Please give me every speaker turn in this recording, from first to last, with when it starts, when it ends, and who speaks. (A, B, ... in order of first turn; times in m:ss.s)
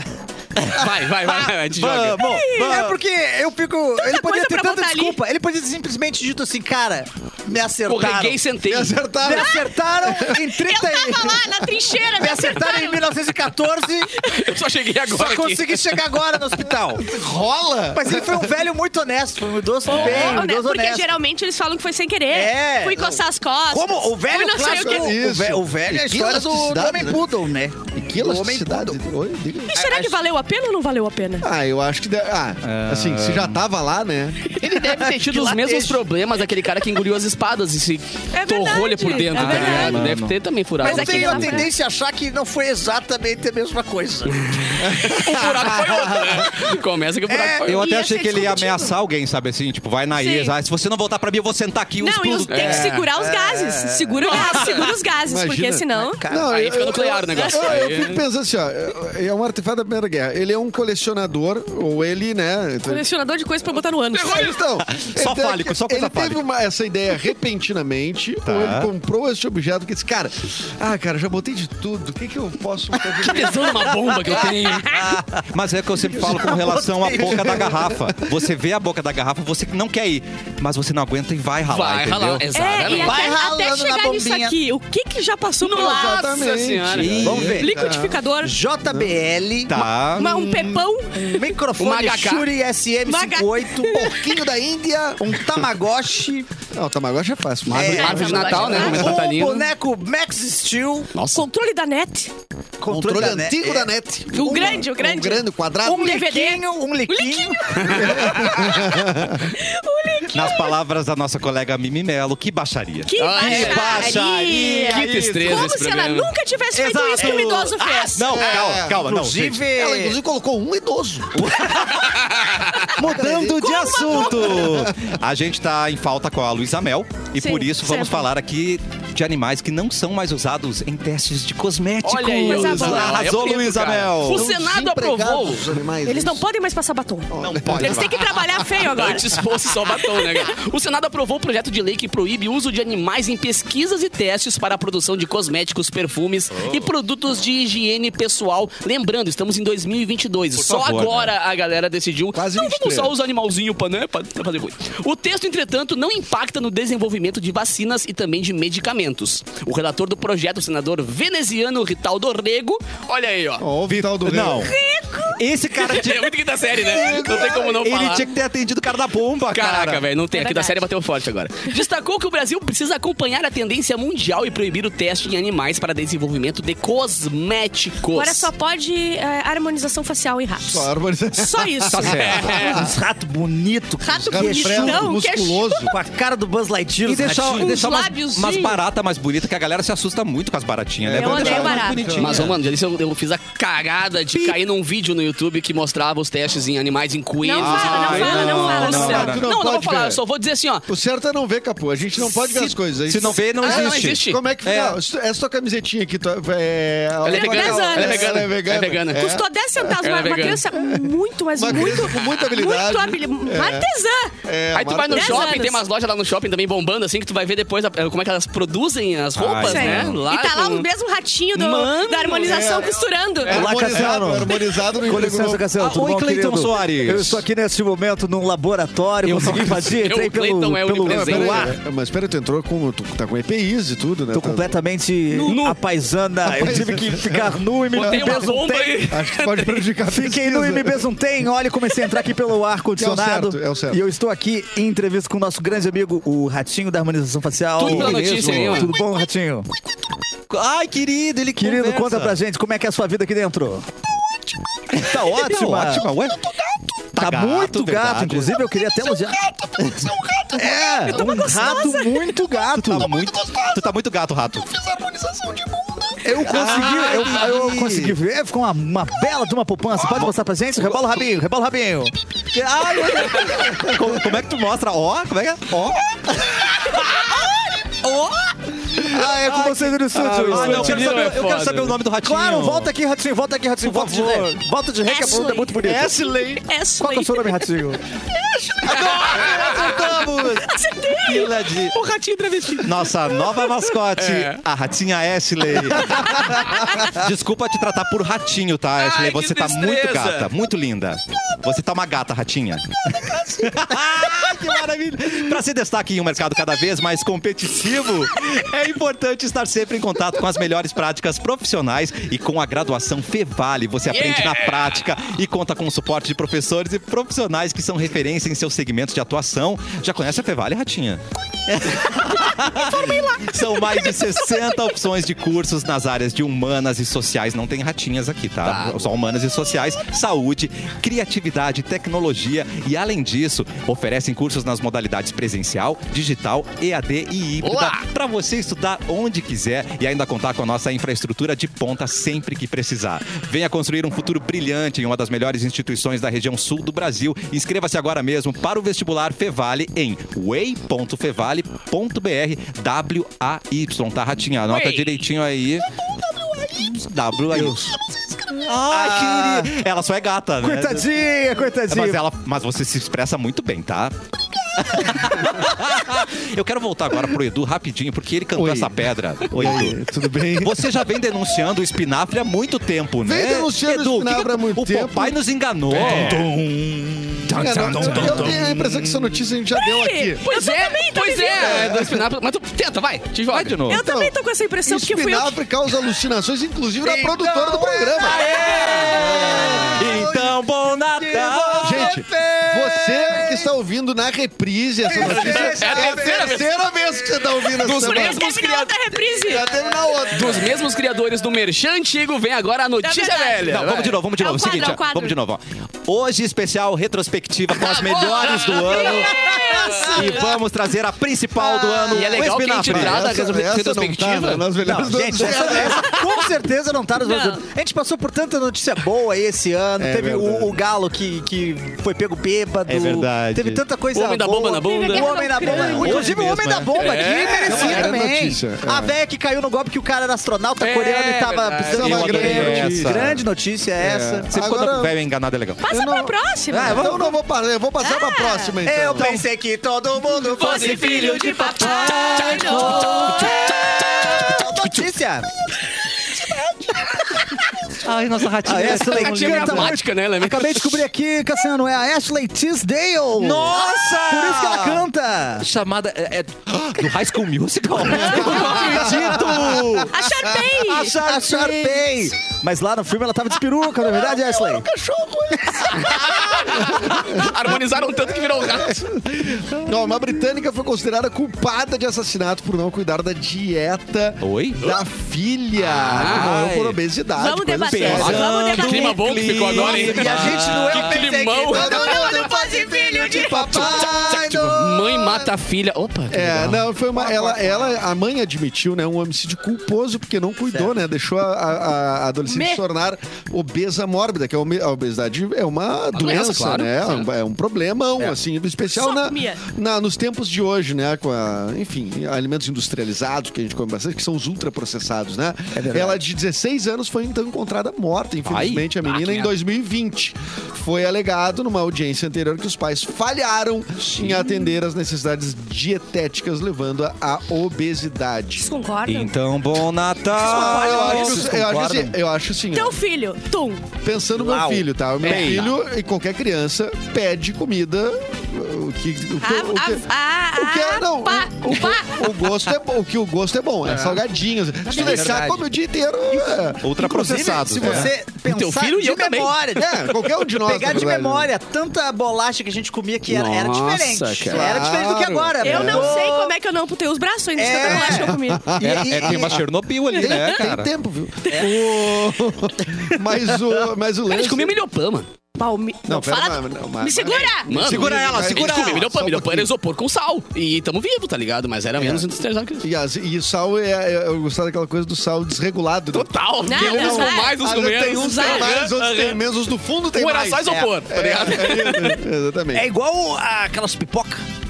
0:00.7-0:02.2 A
0:01.7-0:03.0 B
0:02.2-0:02.8 C
0:02.6-0:08.4 D
0:04.0-0:05.2 C
0:07.9-0:09.0 A
0:08.7-0:10.3 E
0:09.2-0:11.4 D
0:09.4-0:09.6 C
0:10.3-0:13.1 C
0:12.2-0:14.1 D
0:14.2-0:14.5 C
0:14.3-0:16.0 A
0:15.1-0:17.1 D
0:17.0-0:18.6 E
0:17.9-0:21.1 D
0:19.8-0:25.2 C
0:19.9-0:20.4 E
0:22.3-0:29.0 D
0:24.6-0:27.2 E
0:27.9-0:30.2 E
0:29.7-0:31.5 C
0:31.4-0:34.5 E
0:32.6-0:33.6 B
0:34.5-0:36.0 C
0:34.6-0:41.6 A
0:38.3-0:40.2 C
0:39.4-0:40.4 B
0:40.8-0:41.7 C
0:40.8-0:45.0 D
0:44.4-0:47.8 A
0:44.9-0:46.0 E
0:47.3-0:47.7 D
0:47.7-0:53.0 B
0:47.7-0:48.9 C
0:50.2-0:50.6 C
0:52.0-0:56.2 C
0:52.5-0:53.1 A
0:53.2-0:54.4 D
0:54.3-0:54.9 A
0:55.3-1:03.0 E
0:56.0-0:56.5 D
0:56.5-0:58.2 A
1:02.9-1:04.6 C
1:04.1-1:14.4 E
1:04.9-1:06.4 B
1:08.5-1:08.9 B
1:13.2-1:14.9 A
1:14.3-1:15.4 D
1:15.5-1:22.5 B
1:16.1-1:17.7 D
1:17.2-1:18.0 E
1:21.7-1:23.2 A
1:22.5-1:26.4 C
1:22.9-1:24.6 D
1:25.6-1:27.4 A
1:25.7-1:28.2 E
1:26.9-1:27.6 B
1:27.2-1:30.7 D
1:27.5-1:28.5 C
1:28.9-1:29.2 E
1:29.7-1:30.4 B
1:30.2-1:31.5 C
1:31.3-1:34.1 D
1:31.8-1:32.5 A
1:33.1-1:34.4 C
1:33.9-1:35.4 E
1:35.2-1:36.5 D
1:36.7-1:39.0 E
1:37.7-1:39.7 A
1:37.7-1:41.1 D
1:37.9-1:39.2 C
1:41.1-1:41.5 A
1:41.3-1:42.3 C
1:42.8-1:43.9 D
1:42.9-1:46.1 E
1:44.3-1:50.8 C
1:45.8-1:48.0 D
1:47.8-1:48.2 A
1:48.0-1:49.4 E
1:50.3-1:55.7 B
1:53.1-1:58.4 C
1:53.2-1:54.2 A
1:54.8-1:56.3 A
1:56.7-1:59.6 B
1:58.3-1:59.0 E
1:58.6-2:00.2 D
1:59.6-2:01.6 E
2:01.4-2:02.2 B
2:02.0-2:02.7 A
2:02.7-2:04.6 C
2:02.9-2:14.4 B
2:03.0-2:05.2 E
2:07.4-2:08.3 C
2:12.0-2:15.7 A
2:12.4-2:13.1 C
2:12.5-2:13.2 E
2:14.3-2:16.4 E
2:16.0-2:19.4 C
2:17.3-2:18.1 E
2:17.4-2:18.2 B
2:18.7-2:43.7 A
2:20.0-2:20.5 C
2:26.6-2:26.9 B
2:30.6-2:31.4 B
2:32.3-2:33.2 E
2:43.6-2:44.7 E
2:43.9-2:44.8 B
2:44.6-2:45.4 C
2:45.4-2:50.0 B
2:45.8-2:48.3 A
2:47.1-2:47.7 E
2:49.5-2:58.5 A
2:50.3-2:50.9 C
2:58.1-3:02.7 C
3:00.6-3:03.0 E
3:01.9-3:02.7 B
3:02.4-3:02.7 A
3:02.7-3:05.2 D
3:04.0-3:05.9 C
3:04.3-3:06.0 E
3:05.9-3:07.8 D
3:07.0-3:12.6 B
3:07.5-3:08.8 C
3:11.0-3:12.5 E
3:11.2-3:12.0 C
3:12.2-3:20.9 A
3:17.4-3:19.4 C
3:17.6-3:19.5 B
3:18.8-3:20.2 E
3:20.9-3:29.5 E
3:22.2-3:22.8 A
3:23.1-3:25.0 B
3:23.3-3:24.4 A
3:27.2-3:29.4 A
3:27.3-3:28.4 C
3:29.1-3:34.3 C
3:30.0-3:30.6 A
3:30.7-3:33.9 E
3:31.7-3:32.4 A
3:34.4-3:35.6 E
3:34.7-3:40.9 A
3:35.1-3:35.9 C
3:39.4-3:40.2 B
3:39.6-3:43.8 C
3:41.5-3:42.8 A
3:42.4-3:45.7 E
3:43.5-3:51.8 D
3:45.8-3:47.4 B
3:49.3-3:51.7 A
3:51.0-3:54.8 E
3:54.3-3:59.0 D
3:55.4-3:55.8 A
3:56.5-3:58.5 E
3:57.9-3:59.9 A
3:59.1-4:01.0 E
4:00.1-4:09.7 D
4:03.0-4:04.0 E
4:07.8-4:08.9 A
4:07.9-4:08.9 E
4:07.9-4:08.2 B
4:10.5-4:12.4 B
4:11.6-4:13.9 D
4:14.9-4:16.5 B
4:15.0-4:16.1 D
4:16.1-4:16.9 E
4:17.1-4:18.7 B
4:17.2-4:23.1 D
4:18.8-4:23.9 E
4:21.1-4:22.1 C
4:22.8-4:24.7 B
4:24.6-4:27.5 E
4:26.2-4:32.1 D
4:26.4-4:28.2 B
4:30.0-4:30.3 B
4:32.5-4:36.2 B
4:33.6-4:33.9 E
4:37.0-4:37.5 B
4:38.0-4:42.9 B
4:39.0-4:41.4 D
4:40.5-4:42.0 A
4:42.2-4:46.2 D
4:43.8-4:44.6 B
4:45.1-4:45.8 C
4:45.8-4:46.6 B
4:46.5-4:47.7 C
4:47.0-4:48.0 D
4:48.6-4:49.7 C
4:48.8-4:52.0 B
4:49.3-4:49.8 A
4:50.6-4:51.7 C
4:51.9-4:53.0 A
4:52.8-5:55.9 B
4:54.2-4:54.6 A
4:56.7-4:57.0 C
4:59.0-5:00.5 A
5:14.1-5:15.0 A
5:28.6-5:29.1 A
5:37.6-5:38.1 A
5:54.7-5:55.3 A
5:56.8-5:57.9 B
5:57.4-5:59.7 D
5:58.6-6:01.1 B
6:00.6-6:02.2 D
6:01.9-6:04.2 B
6:04.8-6:10.0 B
6:08.6-6:11.0 E
6:10.5-6:16.5 B
6:13.2-6:15.4 E
6:15.9-6:18.7 D
6:16.0-6:16.3 A
6:16.0-6:16.3 E
6:17.5-6:19.3 B
6:17.5-6:20.4 E
6:19.7-6:21.8 C
6:20.4-6:23.8 A
6:21.6-6:22.2 E
6:23.5-6:24.0 B
6:23.9-6:25.6 C
6:23.9-6:24.3 E
6:24.8-6:28.4 E
6:27.0-6:33.7 D
6:28.3-6:32.2 B
6:28.8-6:29.0 A
6:29.1-6:30.2 E
6:31.8-6:38.4 E
6:35.0-6:36.7 D
6:35.2-6:36.7 A
6:37.8-6:38.9 A
6:37.9-6:39.8 C
6:39.4-6:40.8 E
6:40.3-6:44.2 A
6:43.0-6:43.8 C
6:43.7-6:49.4 B
6:44.4-6:45.4 C
6:47.8-6:50.5 C
6:49.1-6:50.2 D
6:49.9-6:53.3 B
6:51.8-6:52.1 C
6:52.1-6:54.7 A
6:52.3-6:56.2 E
6:54.8-7:14.5 D
6:57.2-6:57.6 C
7:00.0-7:00.8 E
7:02.9-7:03.8 B
7:04.1-7:05.4 A
7:04.8-7:06.4 C
7:05.6-7:06.9 B
7:07.0-7:08.1 A
7:07.6-7:09.1 E
7:07.7-7:08.1 B
7:10.8-7:12.6 A
7:11.9-7:13.4 E
7:11.9-7:13.4 B
7:14.0-7:15.1 E
7:14.5-7:15.9 B
7:15.8-7:17.1 C
7:15.9-7:19.4 E
7:16.7-7:17.3 D
7:16.8-7:17.1 B
7:18.0-7:18.8 C
7:18.8-7:25.5 D
7:19.2-7:19.4 B
7:20.6-7:21.4 A
7:20.6-7:23.8 C
7:20.8-7:24.7 B
7:22.4-7:22.9 A
7:28.0-7:30.0 B
7:28.6-7:35.7 D
7:28.8-7:31.1 A
7:33.4-7:40.2 B
7:33.7-7:34.1 C
7:38.2-7:40.0 E
7:38.3-7:39.2 A
7:38.5-7:39.4 D
7:40.1-7:41.1 C
7:40.8-7:42.0 B
7:41.2-7:44.9 D
7:41.8-7:42.3 E
7:44.0-7:58.5 E
7:46.3-7:49.0 A
7:54.4-7:54.8 B
7:55.8-7:57.0 B
7:56.1-7:56.6 A
7:57.4-7:59.5 C
7:57.8-8:01.2 B
7:58.2-8:02.2 A
7:59.8-8:05.5 D
8:01.7-8:04.1 C
8:01.7-8:02.5 E
8:03.3-8:04.4 E
8:03.6-8:06.9 A
8:06.3-8:38.7 E
8:07.2-8:07.6 D
8:10.7-8:10.9 D
8:12.5-8:12.8 C
8:16.1-8:17.3 A
8:18.9-8:19.6 C
8:25.7-8:26.2 D
8:28.4-8:28.9 B
8:29.0-8:29.5 A
8:34.1-8:34.5 B
8:38.6-8:39.3 C
8:39.1-8:41.7 B
8:40.3-8:41.5 C
8:40.4-8:43.0 E
8:40.8-8:42.2 D
8:42.7-8:43.8 C
8:44.0-8:56.9 E
8:44.4-8:45.8 D
8:45.3-8:45.6 A
8:45.3-8:45.6 B
8:49.4-8:52.7 C
8:53.9-8:54.2 A
8:54.9-8:55.7 D
8:55.0-8:55.3 B
8:56.3-9:06.6 D
8:56.8-8:58.1 B
8:57.7-8:58.1 E
8:58.3-8:59.6 A
8:59.8-9:01.5 E
9:03.3-9:04.9 A
9:04.5-9:06.2 E
9:05.6-9:08.7 C
9:07.6-9:09.5 D
9:07.7-9:14.8 E
9:08.8-9:10.9 B
9:10.1-9:10.6 C
9:11.4-9:11.8 C
9:11.5-9:11.8 D
9:14.3-9:15.3 A
9:15.6-9:17.7 C
9:16.1-9:19.7 E
9:17.7-9:22.9 A
9:17.7-9:19.1 B
9:22.0-9:22.3 E
9:22.8-9:32.9 E
9:26.1-9:29.4 A
9:26.7-9:28.8 C
9:30.1-9:32.2 A
9:32.7-9:34.4 D